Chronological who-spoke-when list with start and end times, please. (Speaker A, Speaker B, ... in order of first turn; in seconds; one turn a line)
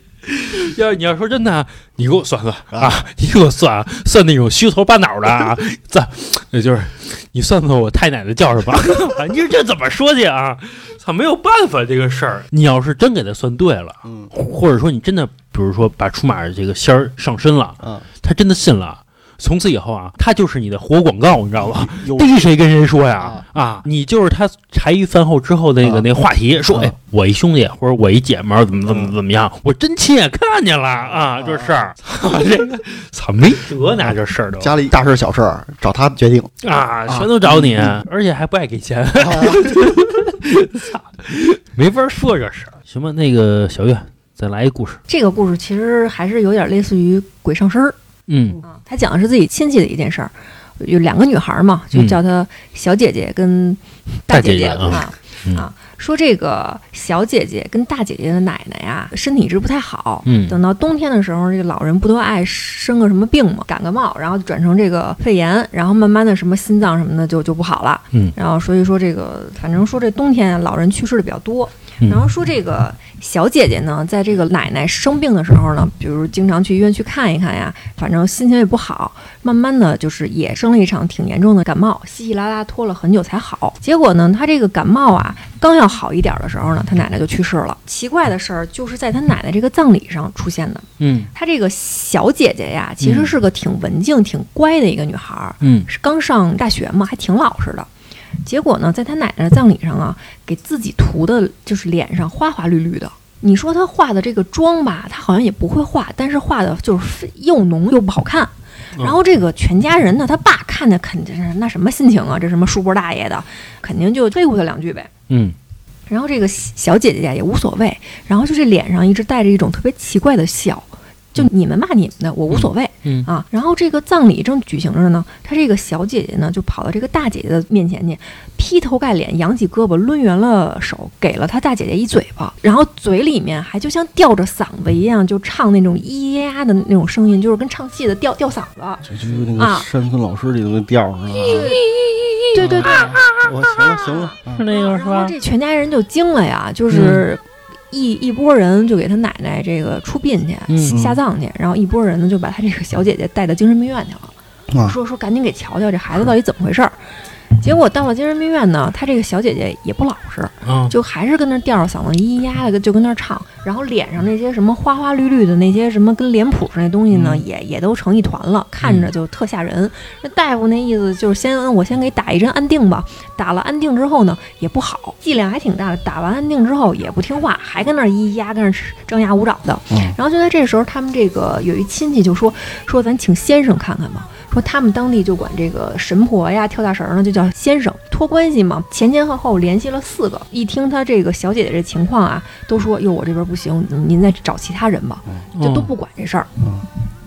Speaker A: 0.3-34.8
Speaker B: 2.7-3.0
Speaker B: 14.0-14.3
Speaker B: 21.6-22.3
Speaker B: 23.2-23.5
Speaker B: 25.8-26.1
Speaker B: 28.9-29.2
Speaker B: 31.4-31.9
Speaker B: 34.0-36.5
Speaker A: 36.6-45.0
Speaker B: 37.1-38.0
Speaker B: 39.1-39.9
Speaker C: 45.1-48.0
Speaker A: 48.3-48.6
Speaker C: 48.6-97.9
Speaker A: 51.9-52.2
Speaker A: 54.3-55.7
Speaker A: 60.2-60.6
Speaker A: 91.0-91.3
Speaker A: 93.0-93.3
Speaker A: 95.6-95.9
Speaker C: 98.5-115.1
Speaker A: 115.3-115.6
Speaker C: 116.1-139.9
Speaker A: 122.5-123.3
Speaker B: 139.1-141.7
Speaker C: 141.4-141.8
Speaker A: 141.4-144.0
Speaker C: 142.5-143.2
Speaker B: 142.6-144.7
Speaker C: 144.1-154.3
Speaker A: 144.5-145.3
Speaker A: 146.9-147.2
Speaker A: 150.7-151.0
Speaker B: 150.9-151.2
Speaker B: 154.7-155.0
Speaker C: 154.9-157.0
Speaker C: 157.6-196.5
Speaker A: 160.6-160.9
Speaker A: 167.1-167.4
Speaker A: 168.8-169.1
Speaker A: 195.6-195.9